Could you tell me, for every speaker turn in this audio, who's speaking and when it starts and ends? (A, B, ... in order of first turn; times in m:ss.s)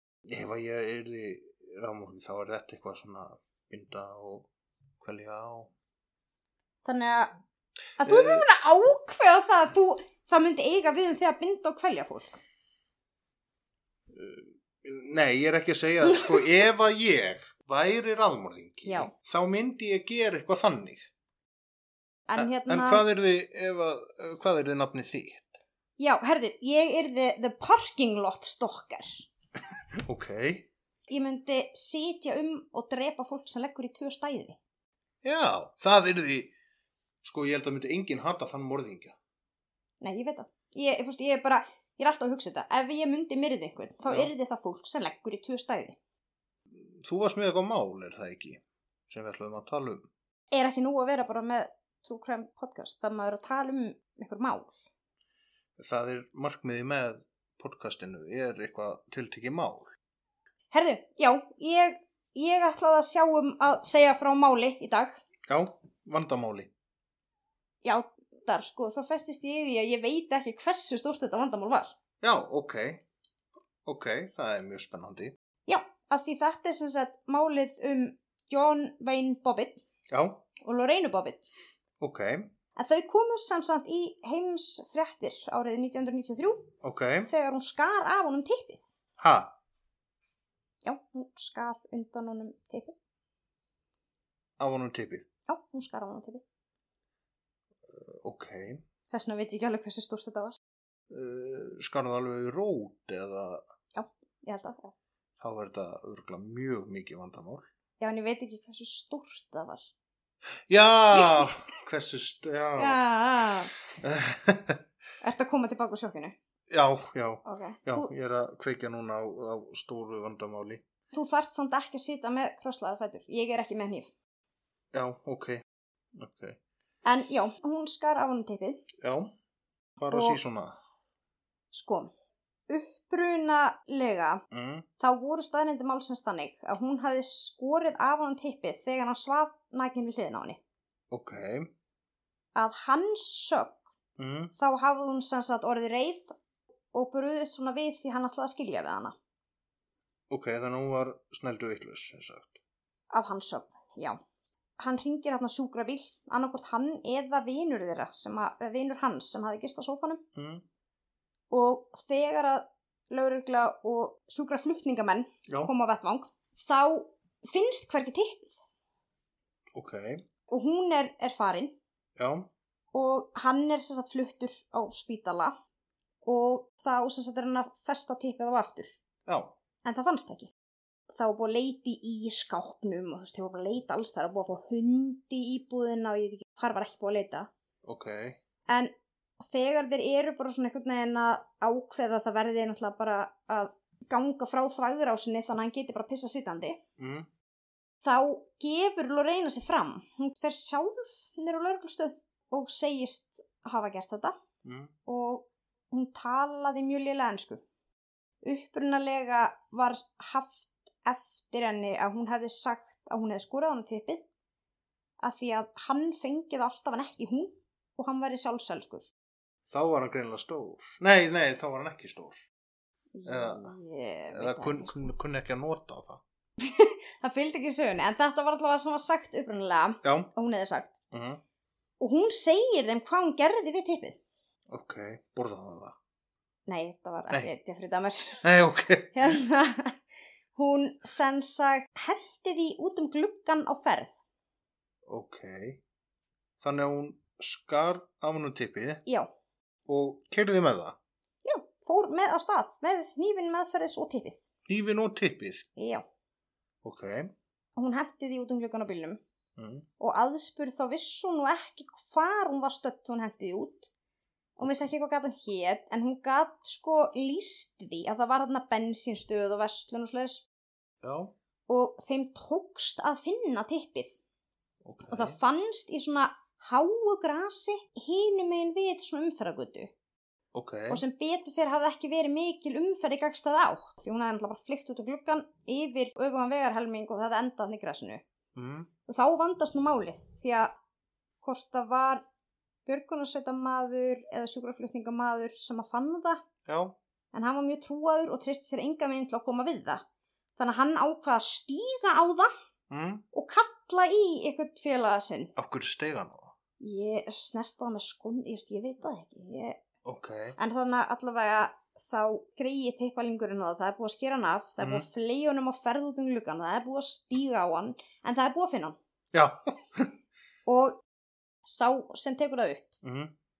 0:00.3-0:04.5 A
0:05.0-0:05.7 A
0:06.8-0:07.3 B
0:08.0-0:12.4 B
0:08.0-0:08.4 A
0:14.1-0:21.0 A
0:16.0-0:16.5 B
0:18.8-0:19.1 B
0:22.3-0:23.0 B
0:22.4-0:25.6 A
0:26.0-0:29.2 B
0:30.0-0:30.7 A
0:31.1-0:34.6 B
0:35.2-0:36.5 A
0:37.2-0:39.2 A
0:40.0-0:46.0 B
0:46.8-0:50.1 A
0:50.5-0:54.7 B
0:55.8-0:59.9 A
1:00.7-1:05.2 B
1:05.5-1:06.7 A
1:07.8-1:11.9 B
1:12.2-1:13.0 A
1:13.8-1:15.3 A
1:15.6-1:19.8 B
1:20.1-1:20.4 A
1:20.6-1:21.5 B
1:22.0-1:22.5 A
1:22.8-1:26.7 B
1:26.8-1:27.3 A
1:27.3-1:28.8 B
1:29.2-1:29.5 A
1:30.8-1:32.9 B
1:34.6-1:35.2 A
1:35.5-1:36.4 B
1:37.9-1:38.8 A
1:39.1-1:40.6 B
1:41.1-1:43.6 A
1:43.9-1:44.9 B
1:45.4-1:47.6 A
1:48.0-1:49.8 B
1:50.7-1:53.0 A
1:51.1-1:51.5 B
1:52.8-1:53.7 B
1:54.0-1:54.8 A
1:55.2-1:56.4 B
1:56.7-2:00.8 A
1:57.4-1:58.1 B
2:01.1-2:04.1 B
2:04.9-2:05.6 A
2:06.1-2:06.6 A
2:07.0-2:08.8 B
2:09.0-2:09.3 A
2:10.0-2:10.8 A
2:10.1-2:10.4 B
2:11.7-2:12.1 B
2:12.7-2:14.4 B
2:14.5-2:14.9 A
2:15.0-2:20.6 B
2:21.1-2:21.7 A
2:22.5-2:23.8 B
2:24.2-2:24.5 A
2:24.6-2:26.3 B
2:26.9-2:29.1 B
2:30.3-2:32.6 A
2:33.1-2:34.2 B
2:34.8-2:40.2 B
2:40.3-2:40.6 A
2:41.5-2:48.6 B
2:49.7-2:50.2 A
2:50.5-2:51.7 B
2:52.2-2:52.5 A
2:52.9-2:55.5 B
2:56.2-2:59.0 B
2:59.2-2:59.5 A
2:59.8-3:00.5 B
3:01.1-3:07.5 B
3:07.8-3:08.4 A
3:08.7-3:16.8 B
3:17.0-3:17.3 A
3:18.0-3:24.4 B
3:24.6-3:24.9 A
3:25.0-3:27.6 B
3:28.4-3:34.2 B
3:35.2-3:39.1 B
3:39.6-3:42.4 A
3:43.1-3:45.1 B
3:43.2-3:43.7 A
3:44.3-3:46.2 A
3:46.6-3:51.0 B
3:50.0-3:50.3 A
3:51.1-3:51.4 A
3:52.0-3:54.2 B
3:54.7-3:55.9 A
3:56.7-3:58.4 B
3:58.4-3:59.4 A
3:59.1-4:00.0 B
4:00.5-4:04.1 B
4:05.0-4:05.8 A
4:06.6-4:09.0 A
4:09.8-4:11.0 A
4:11.4-4:14.4 B
4:14.7-4:15.7 A
4:15.8-4:16.0 B
4:16.8-4:17.3 A
4:17.8-4:19.2 B
4:19.6-4:19.9 A
4:20.0-4:23.9 B
4:24.6-4:30.5 B
4:31.0-4:31.3 A
4:31.7-4:34.2 B
4:34.8-4:35.4 A
4:35.1-4:39.9 B
4:40.5-4:41.0 A
4:40.9-4:48.2 B
4:48.5-4:48.9 A
4:49.1-4:50.7 B
4:51.4-4:52.2 B
4:52.8-4:56.4 B
4:56.6-4:56.9 A
4:57.3-5:00.0 B
5:00.6-5:02.5 B
5:02.9-5:03.2 A
5:03.3-5:05.5 B
5:05.6-5:06.5 A
5:06.8-5:09.8 B
5:10.0-5:10.6 A
5:10.6-5:19.0 B
5:14.8-5:15.0 A
5:19.3-5:20.1 A
5:20.6-5:21.0 B
5:21.6-5:22.9 B
5:23.0-5:23.3 A